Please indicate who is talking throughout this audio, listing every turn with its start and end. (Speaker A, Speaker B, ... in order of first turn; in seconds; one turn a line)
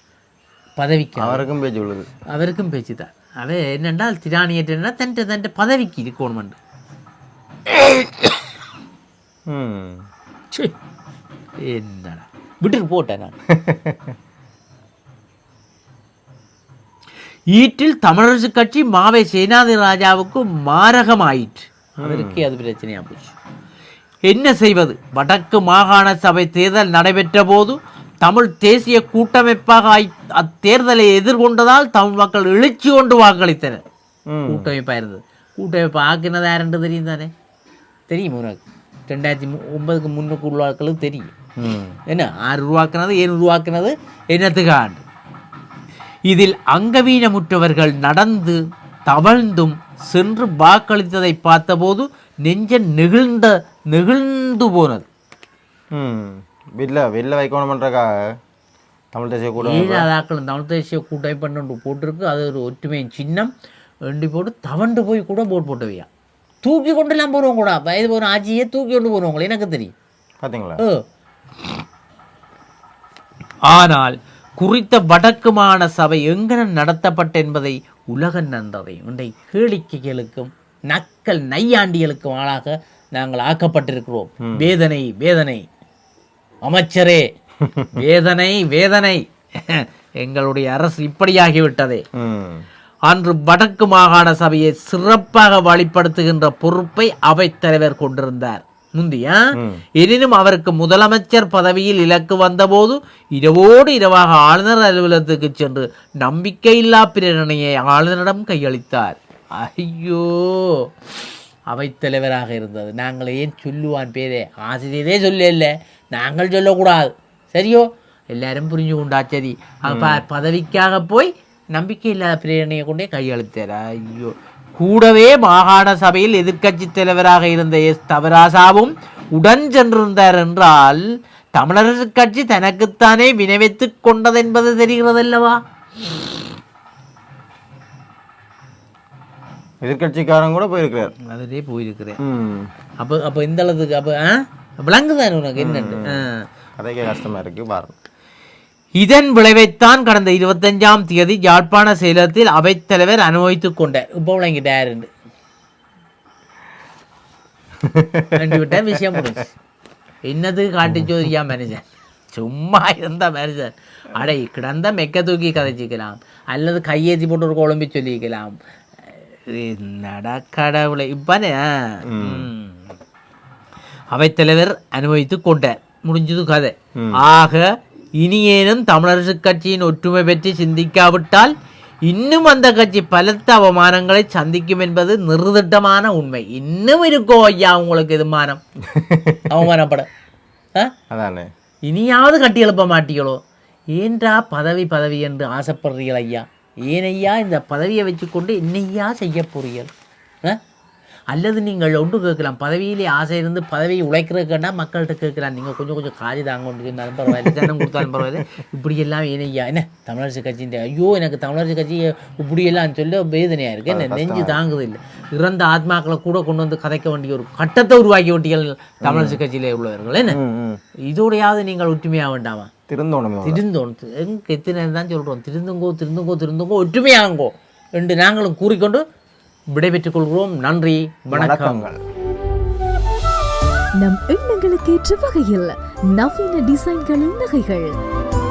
Speaker A: 0.8-1.4
Speaker B: 1.2-2.1
Speaker A: 2.3-6.6
Speaker A: 7.7-8.3
Speaker B: 9.5-10.0
Speaker A: 11.6-13.3
Speaker B: 13.5-14.1
Speaker A: 17.5-23.4
Speaker B: 22.0-22.4
Speaker A: 24.3-33.8
Speaker B: 34.3-34.7
Speaker A: 34.5-37.3
Speaker A: 38.1-41.3
Speaker B: 41.6-42.0
Speaker A: 42.1-45.0
Speaker A: 46.2-55.0
Speaker B: 55.9-58.2
Speaker B: 59.1-60.1
Speaker A: 59.6-63.5
Speaker A: 64.1-66.1
Speaker A: 66.6-69.9
Speaker B: 70.4-70.8
Speaker A: 73.6-85.7
Speaker B: 84.4-84.7
Speaker A: 86.6-87.3
Speaker B: 87.6-88.0
Speaker A: 87.9-92.0
Speaker B: 92.2-92.7
Speaker A: 93.1-110.9
Speaker A: 111.7-131.0
Speaker B: 119.9-120.2
Speaker A: 131.5-135.6
Speaker B: 139.8-141.1
Speaker A: 141.2-142.2
Speaker B: 142.2-142.7
Speaker A: 143.0-146.4
Speaker B: 145.6-146.2
Speaker B: 146.8-148.0
Speaker A: 148.9-155.1
Speaker B: 157.8-158.8
Speaker A: 158.3-159.5
Speaker A: 160.2-168.6
Speaker B: 160.9-161.2
Speaker A: 169.5-172.8
Speaker B: 172.1-172.5
Speaker A: 174.1-177.7
Speaker A: 178.2-181.5
Speaker A: 182.0-188.6
Speaker B: 188.8-189.6
Speaker A: 189.5-190.1
Speaker B: 191.1-191.5
Speaker A: 191.8-193.4
Speaker A: 193.9-199.9
Speaker A: 201.3-220.4
Speaker B: 207.3-208.2
Speaker B: 213.9-214.6
Speaker B: 219.0-219.4
Speaker B: 220.3-220.8
Speaker A: 221.1-222.7
Speaker B: 222.9-223.6
Speaker A: 223.4-229.0
Speaker A: 229.7-231.9
Speaker B: 231.3-232.0
Speaker C: 234.0-237.9